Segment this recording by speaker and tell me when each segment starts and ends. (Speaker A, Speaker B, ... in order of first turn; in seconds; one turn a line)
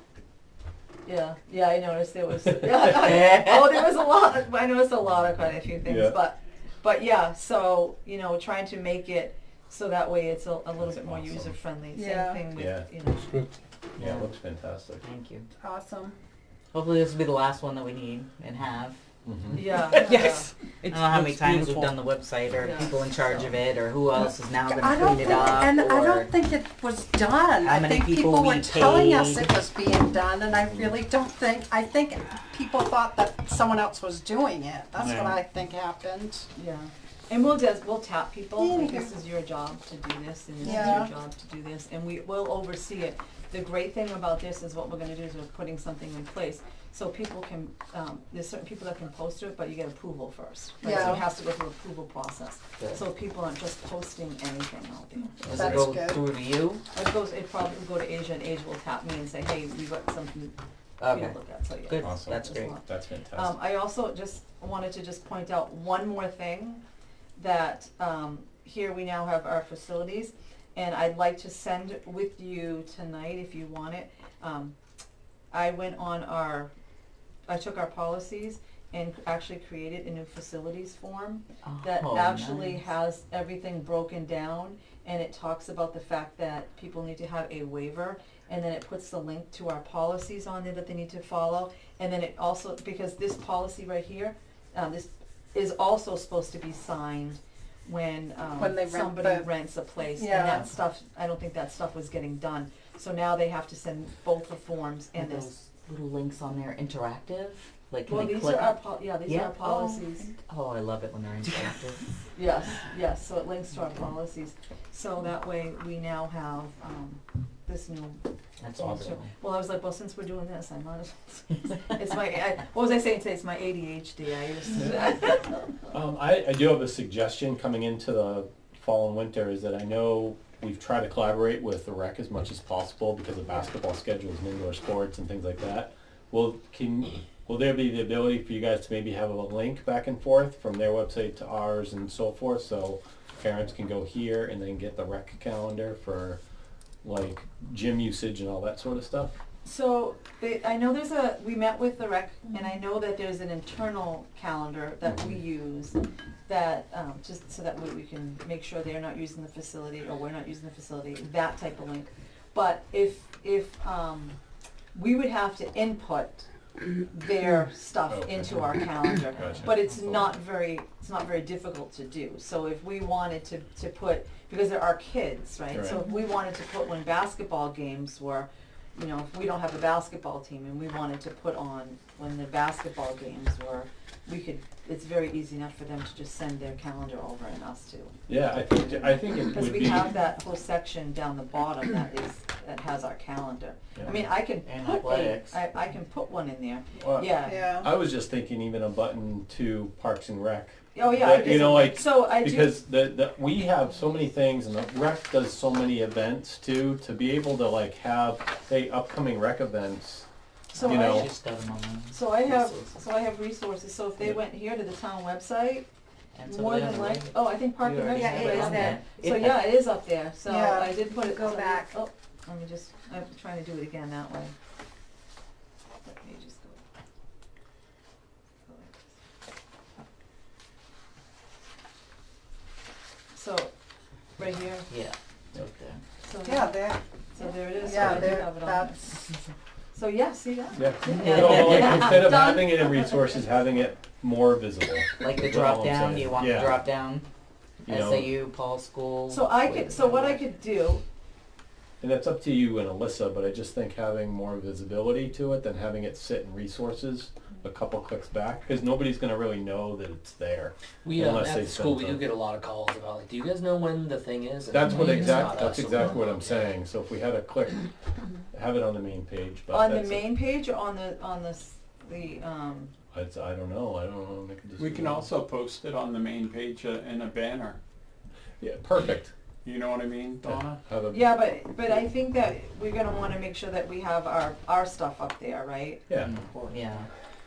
Speaker A: 1.0-13.3
Speaker B: 2.9-3.7
Speaker C: 5.8-6.1
Speaker C: 10.8-11.5
Speaker D: 11.9-12.4
Speaker C: 12.6-12.9
Speaker C: 14.0-15.0
Speaker B: 15.0-15.5
Speaker D: 15.6-16.1
Speaker B: 16.7-19.0
Speaker C: 19.2-19.6
Speaker A: 19.5-20.5
Speaker B: 19.8-26.3
Speaker D: 21.1-21.6
Speaker A: 22.6-23.1
Speaker D: 24.7-36.5
Speaker B: 27.6-29.6
Speaker E: 35.0-35.3
Speaker A: 36.5-55.5
Speaker D: 38.6-39.1
Speaker D: 40.6-41.1
Speaker D: 50.8-51.2
Speaker C: 55.4-55.8
Speaker B: 55.4-56.8
Speaker D: 55.5-56.2
Speaker A: 56.9-66.8
Speaker B: 61.0-62.7
Speaker C: 62.0-63.5
Speaker A: 67.3-74.7
Speaker A: 75.5-76.7
Speaker A: 77.5-105.5
Speaker B: 81.6-82.8
Speaker D: 98.5-99.5
Speaker D: 100.2-100.7
Speaker B: 105.2-112.0
Speaker A: 108.1-110.3
Speaker A: 112.3-118.2
Speaker B: 118.6-119.3
Speaker C: 118.8-119.1
Speaker A: 118.8-125.8
Speaker C: 124.8-125.1
Speaker C: 125.9-146.4
Speaker C: 147.0-149.4
Speaker A: 149.6-164.4
Speaker A: 164.9-188.1
Speaker C: 168.1-169.7
Speaker B: 169.4-170.3
Speaker C: 175.7-176.0
Speaker C: 188.3-190.1
Speaker A: 189.4-197.7
Speaker B: 194.6-195.6
Speaker C: 197.0-210.3
Speaker D: 197.4-197.9
Speaker A: 200.9-202.7
Speaker A: 210.7-211.3
Speaker B: 210.8-212.9
Speaker C: 210.8-211.3
Speaker A: 212.1-215.8
Speaker B: 216.3-219.8
Speaker A: 216.4-224.5
Speaker D: 218.1-219.0
Speaker D: 220.4-221.9
Speaker A: 226.0-226.8
Speaker A: 228.7-229.0
Speaker A: 233.3-233.7
Speaker A: 234.4-234.9
Speaker B: 234.9-236.0
Speaker A: 236.2-236.8
Speaker D: 236.4-237.0
Speaker A: 237.3-239.0
Speaker D: 237.7-239.2
Speaker A: 239.9-243.7
Speaker C: 240.8-246.8
Speaker B: 241.1-242.2
Speaker B: 245.2-247.3
Speaker B: 247.8-250.5
Speaker C: 247.8-248.3
Speaker A: 249.3-251.0
Speaker C: 252.0-262.2
Speaker F: 261.0-266.7
Speaker C: 264.7-267.9
Speaker C: 268.5-270.3
Speaker A: 269.7-272.9
Speaker C: 273.1-275.2
Speaker E: 274.8-277.8
Speaker C: 278.6-279.3
Speaker E: 279.6-280.7
Speaker C: 280.4-281.3
Speaker A: 281.1-286.0
Speaker C: 286.1-286.3
Speaker B: 286.1-287.1